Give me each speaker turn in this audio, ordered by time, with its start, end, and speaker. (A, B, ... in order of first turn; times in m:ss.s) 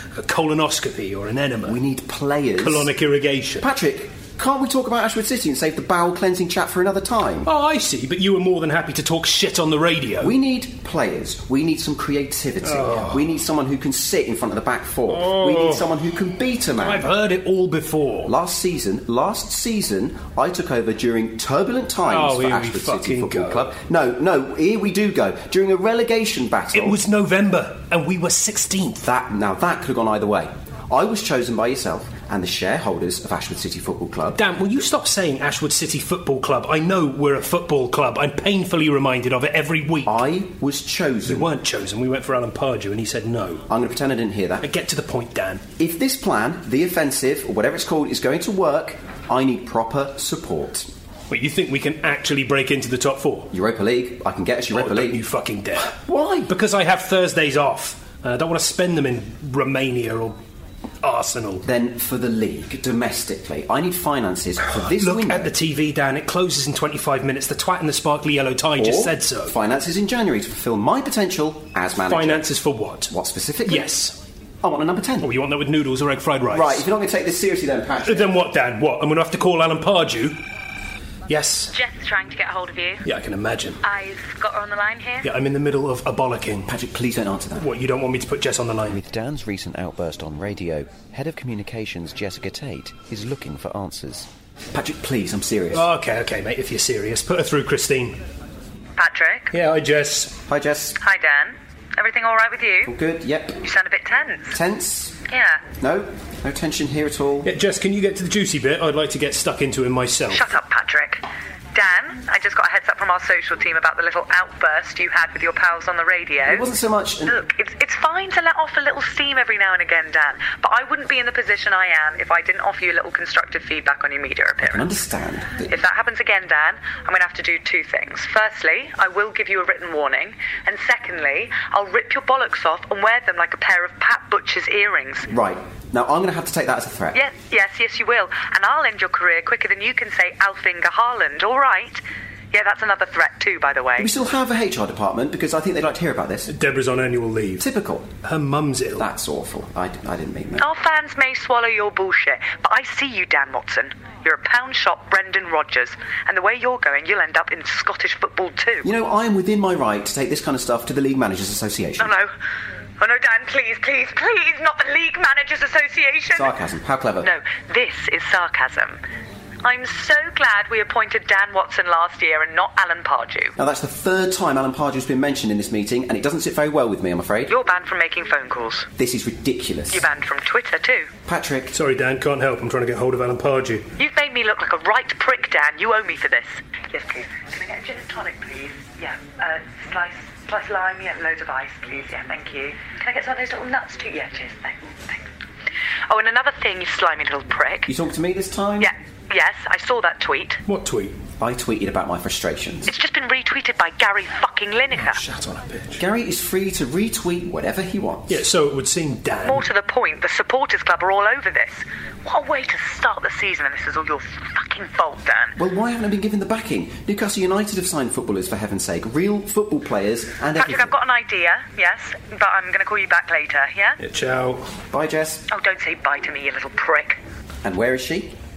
0:00.1-0:01.8 A
0:01.6-0:02.9 B
0:02.6-0:03.7 A
0:03.6-0:07.5 B
0:07.4-0:10.3 A
0:10.2-0:17.1 B
0:12.6-0:13.3 A
0:15.1-0:15.9 A
0:16.8-0:18.3 A
0:18.2-0:27.0 B
0:22.0-0:23.7 A
0:26.7-0:29.0 A
0:29.0-0:34.4 B
0:34.4-0:40.2 A
0:40.0-0:41.5 B
0:41.2-0:43.6 A
0:43.7-0:44.6 B
0:44.6-0:45.6 A
0:45.8-0:50.9 B
0:51.3-0:53.5 A
0:53.5-0:55.2 B
0:54.7-0:55.9 A
0:55.9-0:56.5 B
0:56.5-1:00.4 A
1:01.0-1:01.6 A
1:01.6-1:05.5 B
1:04.7-1:09.5 A
1:08.8-1:12.4 B
1:12.0-1:13.1 A
1:13.1-1:13.9 B
1:13.6-1:14.2 A
1:14.6-1:15.3 B
1:15.2-1:16.9 A
1:16.5-1:18.4 B
1:18.0-1:20.4 A
1:21.3-1:21.7 A
1:21.7-1:23.0 C
1:23.0-1:23.8 A
1:23.8-1:25.2 C
1:25.2-1:26.7 A
1:26.7-1:27.6 B
1:27.5-1:29.0 A
1:28.9-1:35.9 B
1:35.7-1:38.2 A
1:39.0-1:39.4 C
1:39.5-1:40.4 A
1:40.5-1:41.0 B
1:41.0-1:42.9 C
1:42.8-1:43.6 B
1:43.6-1:44.5 C
1:44.5-1:45.2 B
1:45.3-1:45.6 C
1:45.8-1:47.5 B
1:47.4-1:50.5 A
1:50.3-1:51.2 C
1:51.7-1:56.6 C
1:56.4-1:57.4 B
1:57.2-2:04.8 C
2:04.6-2:05.8 B
2:05.7-2:15.2 C
2:15.3-2:17.2 B
2:17.1-2:22.0 C
2:22.5-2:24.1 C
2:24.0-2:26.5 B
2:26.5-2:27.6 A
2:27.6-2:28.1 B
2:28.2-2:29.1 A
2:29.0-2:30.7 B
2:30.6-2:38.8 C
2:38.8-2:42.2 B
2:42.0-2:42.3 C
2:43.0-2:46.5 C
2:46.3-2:47.3 B
2:47.2-2:49.0 C
2:49.6-2:53.5 C
2:53.6-2:57.5 B
2:57.5-2:58.9 C
2:59.0-3:00.0 B
2:59.9-3:01.1 C
3:01.2-3:01.7 B
3:01.7-3:03.9 A
3:04.0-3:15.2 C
3:16.1-3:17.9 C
3:17.8-3:18.9 B
3:18.8-3:20.6 C
3:20.6-3:21.2 A
3:21.4-3:22.9 B
3:22.9-3:25.2 C
3:24.9-3:26.0 A
3:26.0-3:28.4 B
3:28.3-3:29.7 A
3:29.4-3:35.5 C
3:35.6-3:40.9 B
3:40.6-3:43.9 C
3:44.0-3:44.7 A
3:44.9-3:45.4 B
3:45.5-3:47.2 C
3:47.6-3:48.3 B